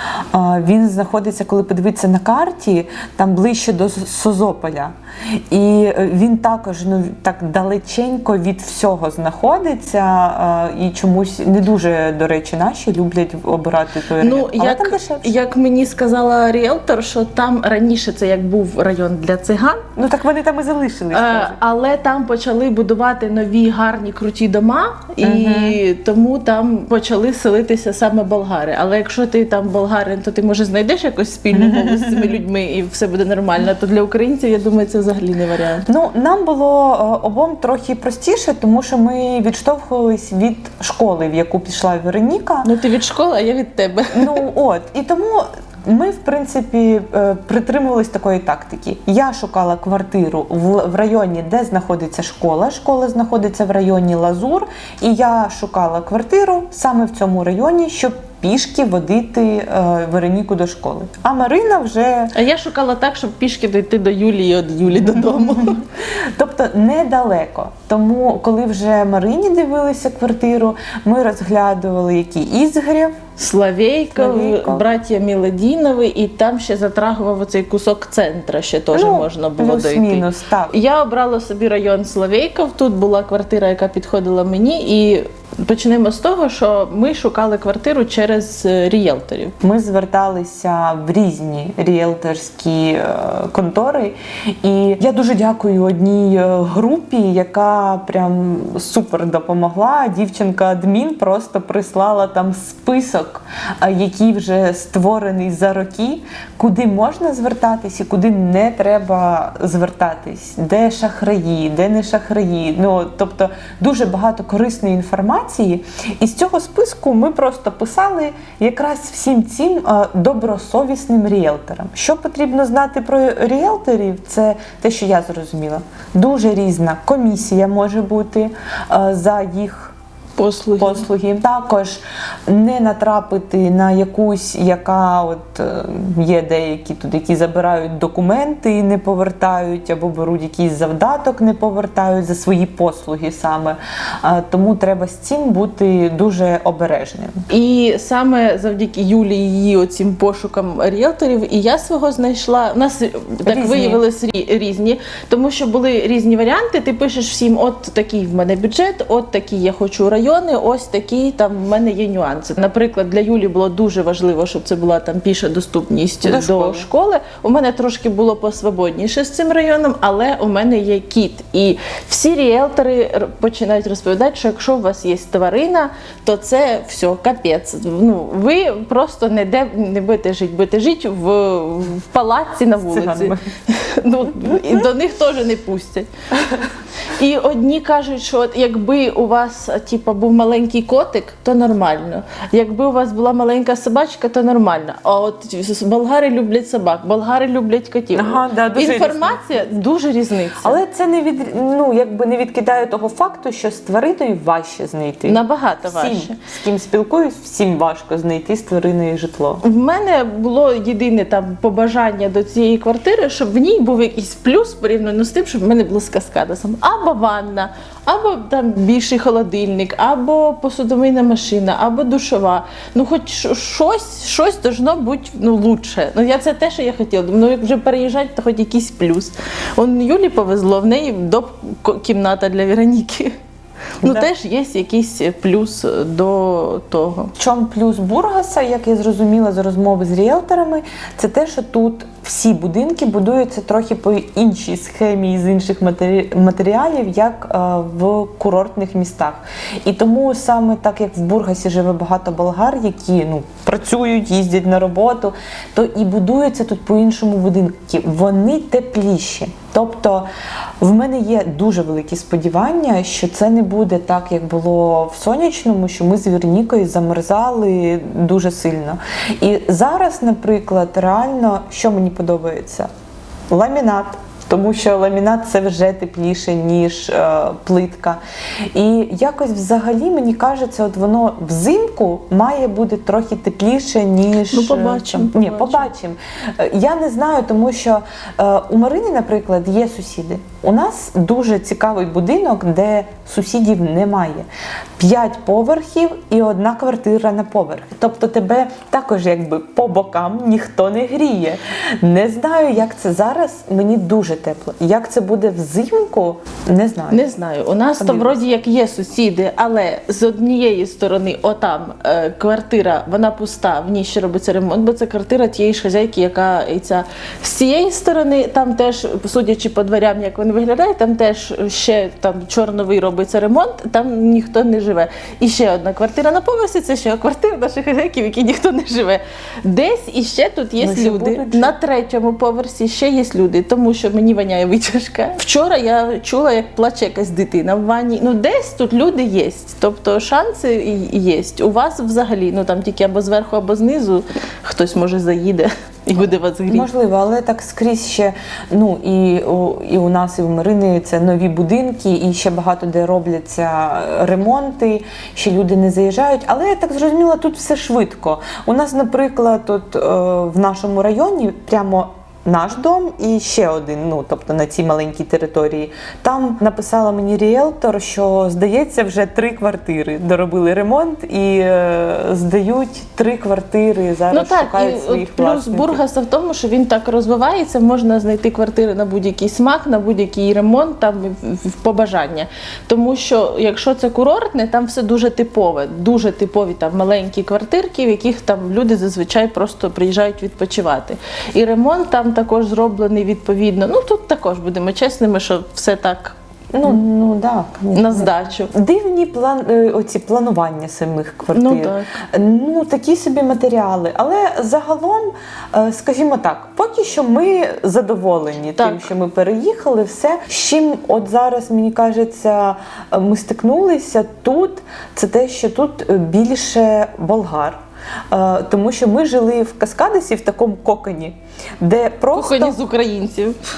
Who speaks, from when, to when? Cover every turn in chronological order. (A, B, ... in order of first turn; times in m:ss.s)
0:00.3-0:15.3 A
0:14.2-0:19.9 B
0:20.0-0:21.6 A
0:21.1-0:35.8 B
0:25.2-0:25.8 A
0:31.5-0:32.4 A
0:35.8-0:42.7 A
0:42.6-0:44.4 B
0:44.1-1:02.3 A
1:02.3-1:05.8 B
1:05.0-1:13.2 A
1:13.4-1:29.5 B
1:14.2-1:14.8 A
1:18.9-1:20.7 A
1:29.6-2:09.9 A
2:10.4-2:11.0 B
2:10.8-2:27.4 A
2:27.5-3:06.1 B
2:33.4-2:34.0 A
2:46.2-2:46.9 A
3:02.8-3:03.4 A
3:07.1-3:20.8 B
3:18.1-3:19.6 A
3:20.6-3:29.6 A
3:25.2-3:26.4 B
3:29.6-3:53.4 B
3:54.0-3:57.3 B
3:54.0-3:54.3 A
3:57.4-4:20.3 A
4:20.8-4:32.9 A
4:33.5-4:38.2 A
4:38.7-5:07.3 A
4:44.5-4:45.9 B
5:07.1-5:46.9 B
5:08.0-5:08.4 A
5:30.8-5:31.7 A
5:46.7-6:16.0 A
6:14.3-6:37.0 B
6:36.7-7:02.8 A
6:37.9-6:38.7 B
6:41.5-6:42.1 B
6:48.8-6:49.1 B
7:02.3-7:03.6 B